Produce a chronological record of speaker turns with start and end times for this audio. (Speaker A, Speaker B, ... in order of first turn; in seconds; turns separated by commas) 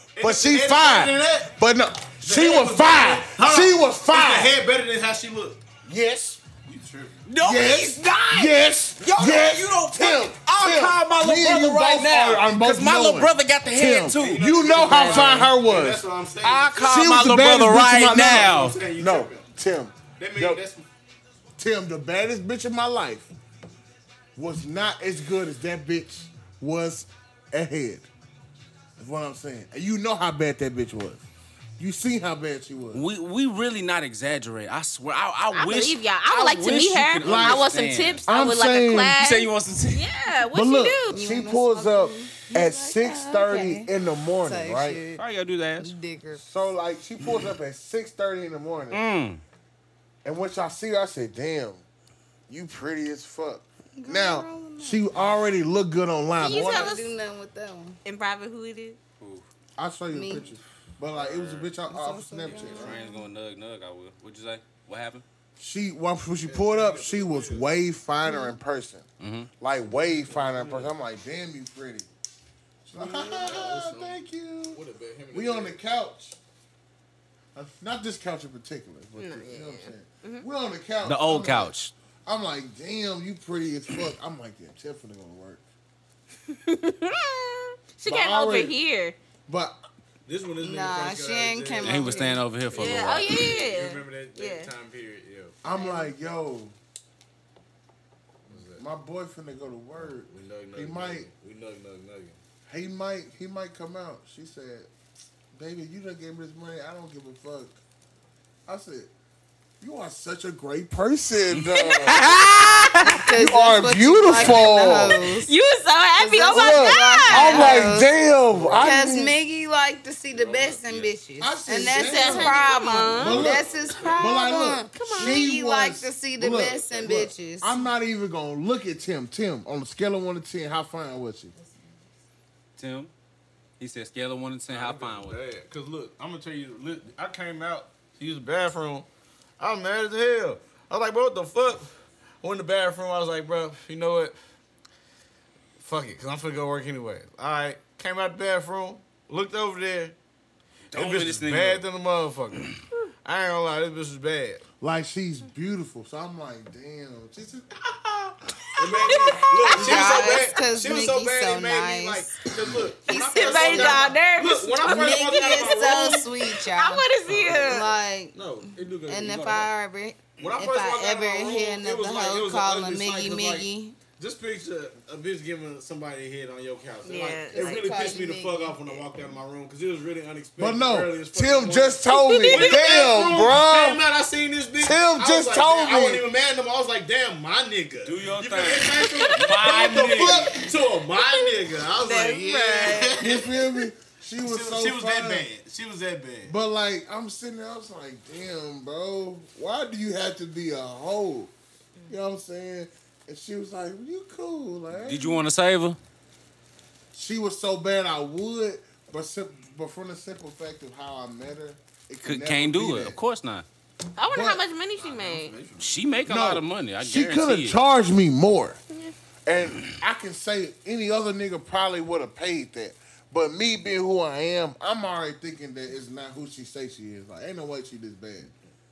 Speaker A: 0.2-1.5, Speaker B: 0.2-4.5, Speaker A: 2.2-5.6, Speaker B: 5.8-6.4, Speaker A: 6.7-7.2, Speaker C: 7.3-15.4, Speaker B: 7.4-16.0, Speaker A: 14.2-16.8, Speaker D: 14.8-15.4, Speaker C: 16.4-18.8, Speaker B: 16.8-20.6, Speaker A: 18.3-19.5, Speaker A: 20.2-20.9, Speaker B: 21.6-23.3, Speaker B: 24.4-28.1, Speaker B: 29.0-31.3, Speaker B: 31.8-33.0, Speaker C: 32.9-38.2, Speaker D: 35.5-41.2, Speaker B: 37.2-37.7, Speaker B: 38.3-39.2, Speaker C: 39.2-40.1, Speaker B: 40.5-45.0, Speaker E: 41.1-43.9, Speaker E: 44.4-45.2, Speaker C: 45.2-45.9, Speaker E: 45.8-46.4, Speaker B: 46.4-49.0, Speaker C: 48.9-49.4, Speaker B: 50.2-51.8, Speaker B: 52.5-57.0, Speaker E: 54.0-55.2, Speaker D: 56.4-57.1, Speaker E: 56.4-58.0, Speaker D: 58.0-59.0, Speaker C: 59.2-59.4, Speaker B: 59.8-63.0, Speaker E: 60.1-60.5, Speaker A: 61.1-61.6, Speaker E: 61.9-63.1, Speaker C: 62.5-65.2, Speaker D: 62.8-63.2, Speaker B: 65.6-69.1, Speaker A: 66.5-67.7, Speaker E: 68.3-68.5, Speaker C: 69.2-69.5, Speaker B: 69.6-72.1, Speaker A: 70.3-70.9, Speaker B: 72.9-74.8, Speaker A: 73.0-75.8, Speaker B: 75.3-76.4, Speaker B: 77.5-81.7, Speaker D: 79.2-80.5, Speaker C: 81.0-81.9, Speaker B: 82.3-85.6, Speaker D: 86.5-89.2, Speaker B: 88.0-88.8, Speaker B: 89.5-89.8, Speaker A: 90.3-92.3, Speaker E: 90.6-92.5, Speaker C: 91.8-93.4, Speaker D: 92.7-94.7, Speaker A: 92.8-95.6, Speaker B: 95.6-96.8, Speaker E: 95.7-96.1, Speaker A: 98.5-98.8, Speaker B: 98.8-101.3, Speaker A: 100.0-102.4, Speaker B: 102.7-104.9, Speaker B: 105.5-107.8, Speaker B: 108.7-109.1, Speaker B: 109.8-112.2, Speaker C: 111.5-113.3, Speaker D: 111.7-112.2, Speaker E: 113.0-115.5, Speaker B: 113.3-115.2, Speaker D: 115.2-117.9, Speaker E: 116.2-118.1, Speaker B: 116.5-119.3, Speaker A: 118.5-119.0, Speaker E: 118.8-127.9, Speaker A: 120.3-121.1, Speaker B: 121.4-131.5, Speaker D: 121.9-123.5, Speaker A: 122.6-124.3, Speaker D: 124.9-125.4, Speaker E: 131.6-132.0, Speaker C: 132.8-133.1, Speaker C: 133.8-135.4, Speaker A: 134.7-139.1, Speaker A: 139.6-141.9, Speaker A: 142.4-144.4, Speaker A: 145.8-150.2, Speaker C: 150.9-151.9, Speaker A: 150.9-152.7, Speaker A: 153.2-154.6, Speaker B: 154.8-158.3, Speaker A: 158.8-166.3, Speaker D: 158.8-160.5, Speaker E: 159.7-162.4, Speaker E: 163.0-164.1, Speaker D: 163.3-167.9, Speaker E: 164.8-168.4, Speaker A: 167.3-167.8, Speaker A: 168.3-169.7, Speaker E: 169.0-174.0, Speaker A: 170.4-193.5, Speaker D: 177.0-177.9, Speaker E: 177.5-178.8, Speaker B: 180.6-184.1, Speaker D: 182.1-183.0, Speaker B: 184.8-186.3, Speaker C: 188.1-190.6, Speaker D: 189.1-189.4, Speaker B: 189.9-190.4, Speaker D: 191.2-193.1, Speaker E: 192.0-193.2, Speaker B: 193.2-195.5, Speaker A: 194.4-196.5, Speaker B: 196.4-201.5, Speaker B: 202.1-205.4, Speaker C: 205.0-206.0, Speaker B: 207.1-213.2, Speaker C: 212.2-213.7, Speaker D: 214.2-215.6, Speaker B: 214.3-214.6, Speaker A: 215.0-216.0, Speaker C: 215.8-217.8, Speaker B: 216.3-218.8, Speaker B: 219.5-228.5